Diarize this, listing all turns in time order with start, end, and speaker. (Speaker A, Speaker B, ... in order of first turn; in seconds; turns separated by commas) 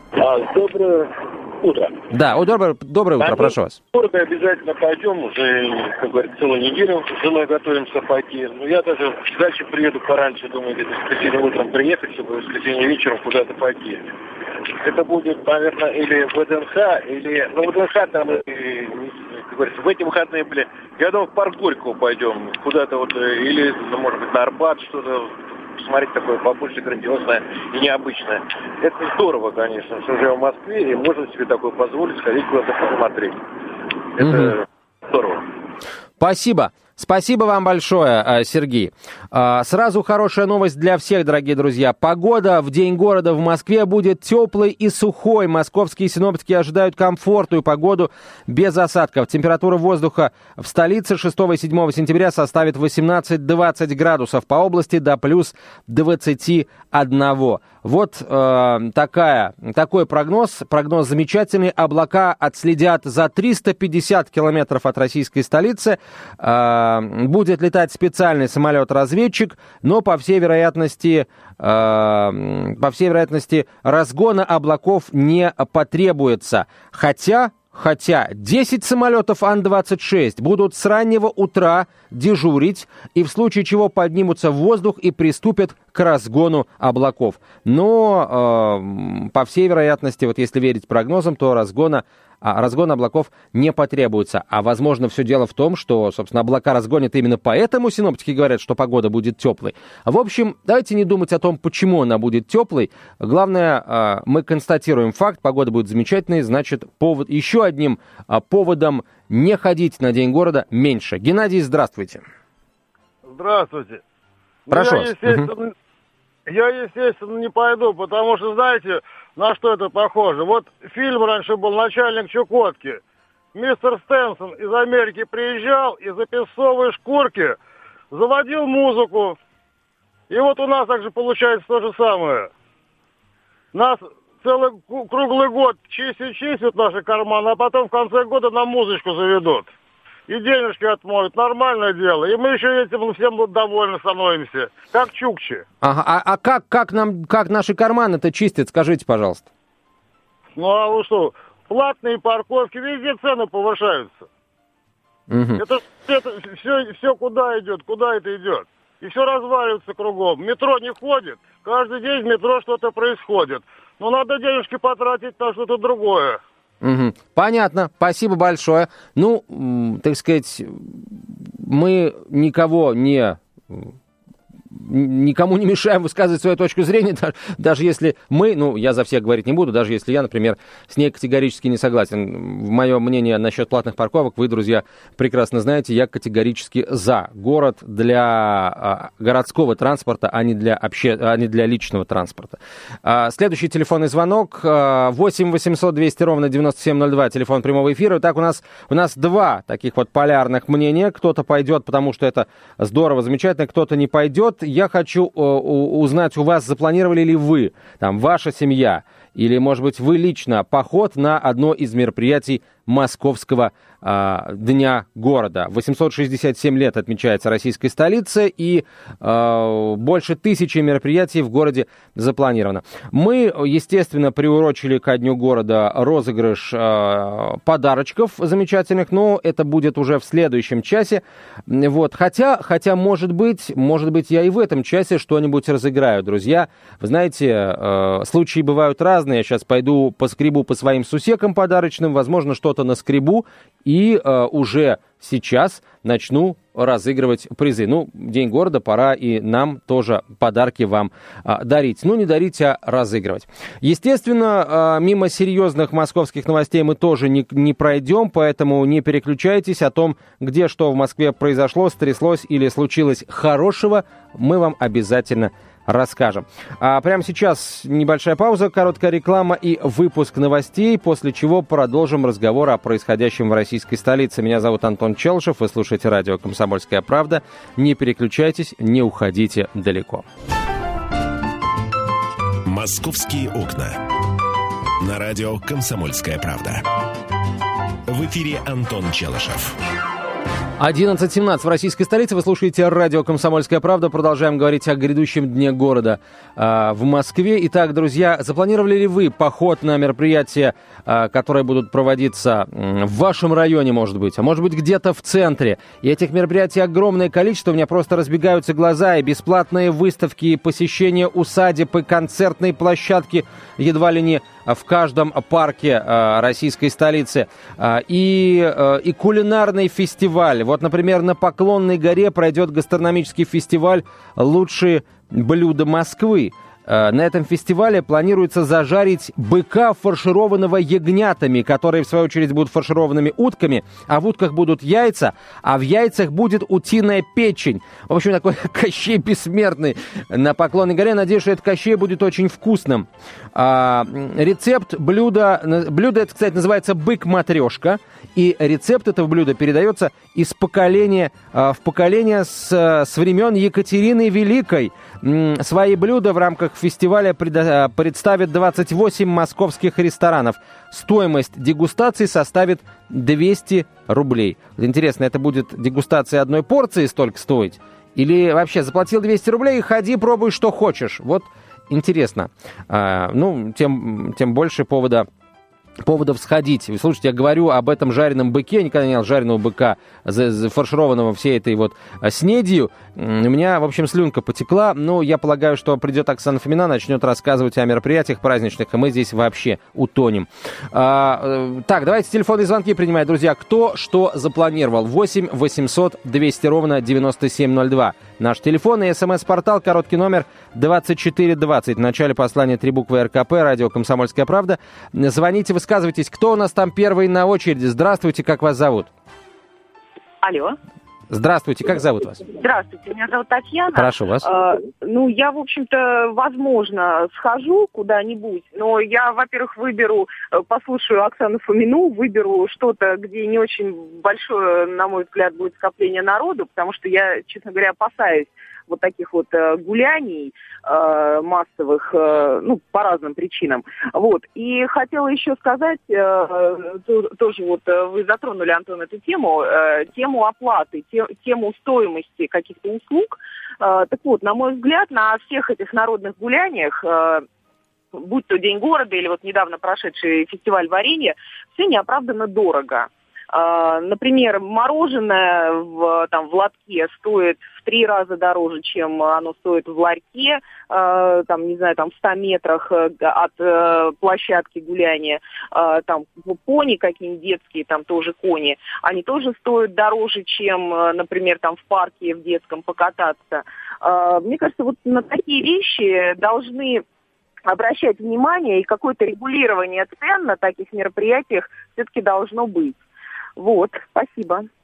Speaker A: 0.1-2.0, Speaker B: 2.1-3.8, Speaker A: 3.2-14.1, Speaker A: 14.7-33.4, Speaker A: 34.2-35.4, Speaker B: 34.2-34.5, Speaker B: 36.2-112.2, Speaker C: 113.2-114.0, Speaker C: 114.7-115.7, Speaker B: 114.7-115.5, Speaker C: 116.5-123.0, Speaker C: 123.5-127.6, Speaker C: 128.1-129.4, Speaker C: 130.3-132.5, Speaker C: 133.7-139.7, Speaker C: 140.3-145.6, Speaker B: 145.8-149.5, Speaker C: 150.6-154.2, Speaker B: 155.3-155.6, Speaker C: 155.6-166.4, Speaker B: 166.8-173.9, Speaker B: 174.7-280.2, Speaker D: 282.6-284.0, Speaker D: 285.0-286.8, Speaker D: 288.1-289.8, Speaker B: 290.8-375.3, Speaker B: 376.0-409.1, Speaker E: 410.4-410.8, Speaker B: 411.3-412.4, Speaker E: 412.4-447.4, Speaker B: 413.9-414.5, Speaker E: 448.1-477.0, Speaker E: 477.6-483.0, Speaker E: 483.6-484.7